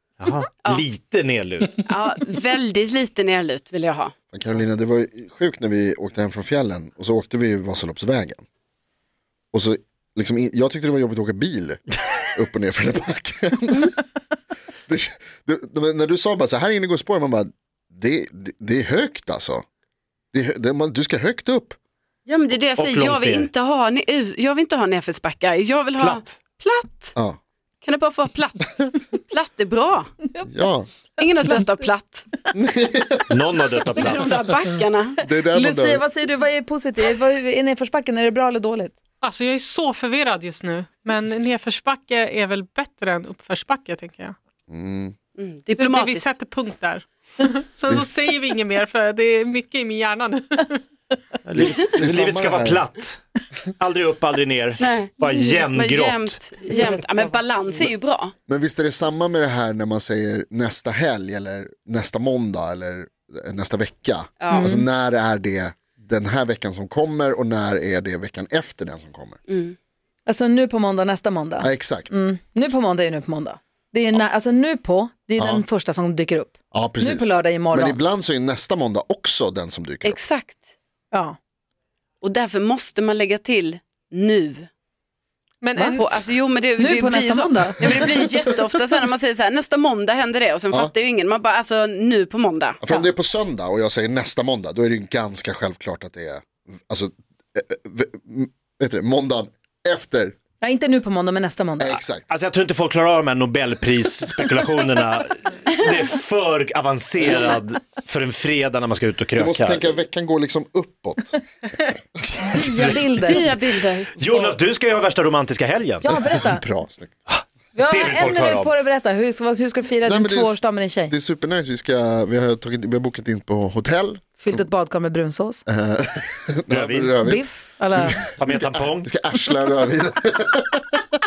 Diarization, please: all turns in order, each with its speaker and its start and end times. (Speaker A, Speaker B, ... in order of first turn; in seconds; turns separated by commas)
Speaker A: 0.2-1.8, Speaker B: 1.8-4.1, Speaker C: 4.3-8.4, Speaker C: 9.5-13.9, Speaker C: 14.9-19.6, Speaker C: 20.3-21.8, Speaker B: 22.3-27.1, Speaker A: 22.8-23.5, Speaker A: 26.0-26.2, Speaker B: 27.8-30.1, Speaker C: 30.5-30.9, Speaker B: 31.2-32.3, Speaker C: 32.5-33.3, Speaker A: 33.3-34.4, Speaker B: 34.0-35.2, Speaker C: 35.2-36.0, Speaker D: 35.5-38.9, Speaker E: 39.2-44.3, Speaker C: 44.7-45.1, Speaker B: 45.4-46.3, Speaker E: 45.7-50.8, Speaker A: 51.4-53.2, Speaker C: 51.5-52.9, Speaker A: 53.8-56.4, Speaker B: 54.8-58.3, Speaker D: 56.7-57.9, Speaker C: 58.5-69.4, Speaker B: 64.4-64.7, Speaker D: 64.5-64.9, Speaker B: 69.5-69.8, Speaker D: 70.2-78.0, Speaker C: 71.6-72.1, Speaker C: 75.4-75.6, Speaker C: 76.7-80.2, Speaker B: 80.0-80.7, Speaker B: 82.2-84.7, Speaker E: 85.6-86.2, Speaker D: 85.8-86.0, Speaker B: 86.0-92.8, Speaker D: 86.8-87.8, Speaker C: 92.8-100.3, Speaker D: 100.6-102.0, Speaker C: 101.8-102.2, Speaker A: 102.3-109.9, Speaker C: 109.3-112.6, Speaker D: 112.4-113.5, Speaker A: 112.5-113.2, Speaker B: 113.2-114.6, Speaker A: 114.2-116.1, Speaker D: 116.0-116.6, Speaker C: 116.2-117.1, Speaker A: 117.3-118.7, Speaker D: 117.7-121.1, Speaker C: 120.0-124.6, Speaker D: 124.4-125.6, Speaker C: 125.7-130.9, Speaker A: 126.7-127.2, Speaker D: 127.2-128.3, Speaker A: 128.3-129.1